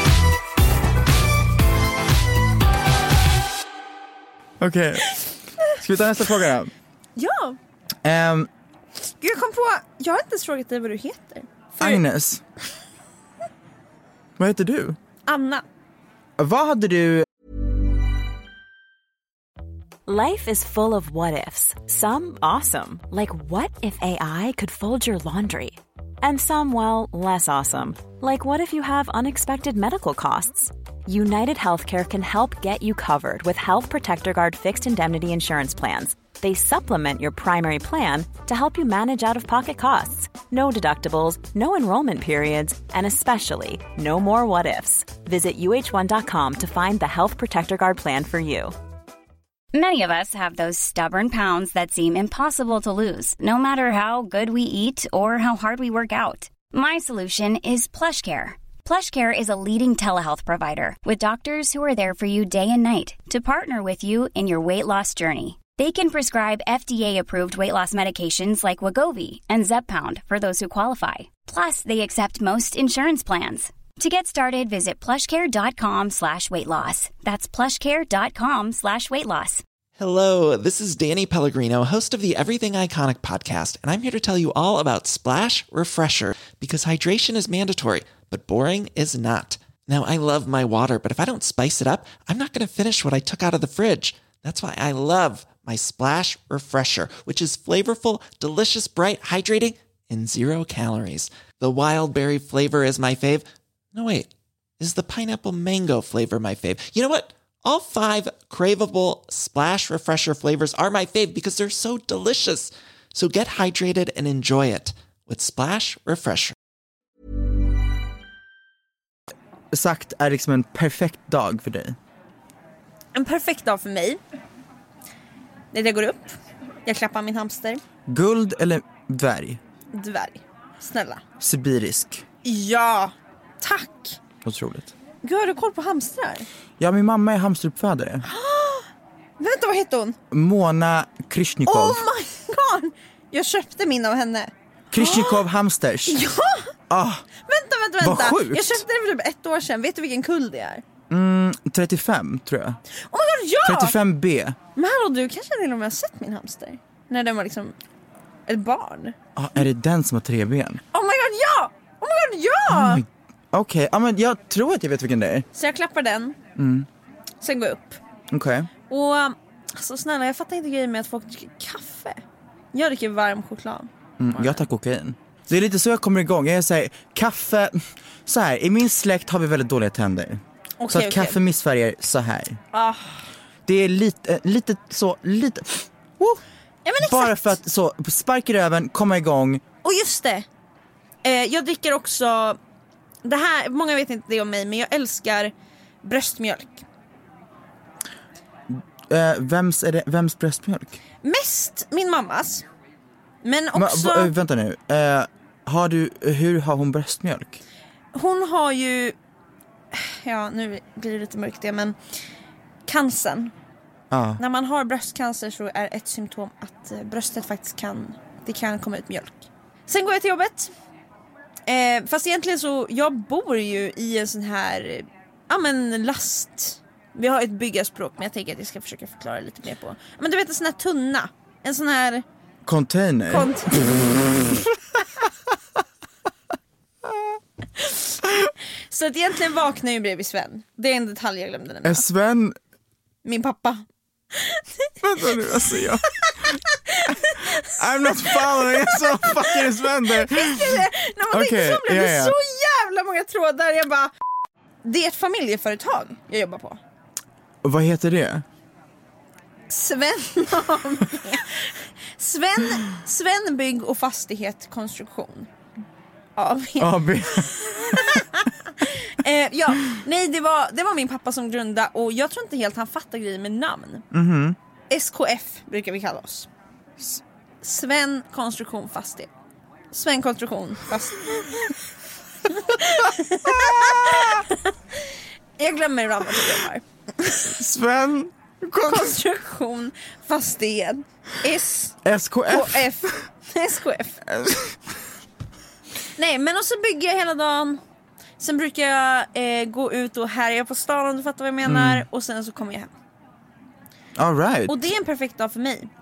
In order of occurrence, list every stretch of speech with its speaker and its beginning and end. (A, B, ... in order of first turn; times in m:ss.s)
0:04.6-0:06.7 A
0:05.1-0:05.8 B
0:07.2-0:07.6 B
0:08.0-0:08.5 A
0:09.2-0:12.0 B
0:11.8-0:12.4 A
0:14.4-0:15.0 A
0:15.2-0:15.6 B
0:16.4-0:17.2 A
0:20.0-0:48.7 C
0:49.7-1:19.6 D
1:20.0-1:56.5 E
1:59.7-2:02.0 A
2:03.1-2:04.2 B
2:05.7-2:07.8 B
2:08.1-2:09.6 A
2:09.9-2:11.2 B
2:11.4-2:12.2 A
2:12.4-2:14.2 B
2:14.4-2:14.9 A
2:15.2-2:16.5 B
2:16.8-2:18.2 A
2:18.2-2:20.2 B
2:20.3-2:22.0 A
2:21.7-2:25.5 B
2:24.9-2:26.2 A
2:26.1-2:26.7 B
2:26.9-2:27.3 A
2:27.4-2:30.8 B
2:28.0-2:28.8 A
2:31.1-2:32.8 A
2:33.1-2:34.0 B
2:33.6-2:34.6 A
2:34.8-2:37.7 B
2:38.5-2:39.2 B
2:39.4-2:40.8 A
2:40.9-2:43.0 B
2:42.7-2:45.4 A
2:45.5-2:46.4 B
2:46.6-2:46.9 A
2:47.4-2:48.0 B
2:48.3-2:48.7 A
2:48.9-2:52.2 B
2:52.7-2:54.6 B
2:54.2-3:02.6 A
3:00.8-3:01.4 B
3:02.7-3:03.3 B
3:03.6-3:06.4 A
3:06.8-3:07.6 B
3:07.0-3:09.6 A
3:09.8-3:10.4 B
3:11.2-3:12.6 B
3:13.2-3:16.8 B
3:18.7-3:21.0 A
3:21.2-3:22.6 B
3:23.4-3:24.3 B
3:23.7-3:27.6 A
3:28.1-3:29.2 B
3:29.9-3:32.0 B
3:32.9-3:33.5 B
3:34.1-3:34.4 A
3:34.4-3:40.7 B
3:41.7-3:52.2 B
3:52.6-3:54.4 A
3:53.3-3:53.9 B
3:57.8-3:58.2 B
3:58.9-4:02.0 B
4:01.8-4:02.6 A
4:03.2-4:04.9 B
4:05.0-4:12.3 A
4:06.2-4:14.1 B
4:14.8-4:16.8 B
4:17.6-4:18.4 A
4:19.7-4:25.5 B
4:26.4-4:34.0 B
4:26.8-4:28.2 A
4:34.1-4:34.6 A
4:34.9-4:36.5 B
4:37.6-4:39.3 B
4:39.9-4:41.7 B
4:42.5-4:47.5 B
4:43.4-4:44.4 A
4:47.4-4:49.1 A
4:48.8-4:54.2 B
4:52.0-4:53.1 A
4:54.3-4:54.8 A
4:56.2-4:57.8 B
4:58.4-5:02.9 B
5:01.6-5:02.1 A
5:04.2-5:04.9 A
5:04.7-5:05.9 B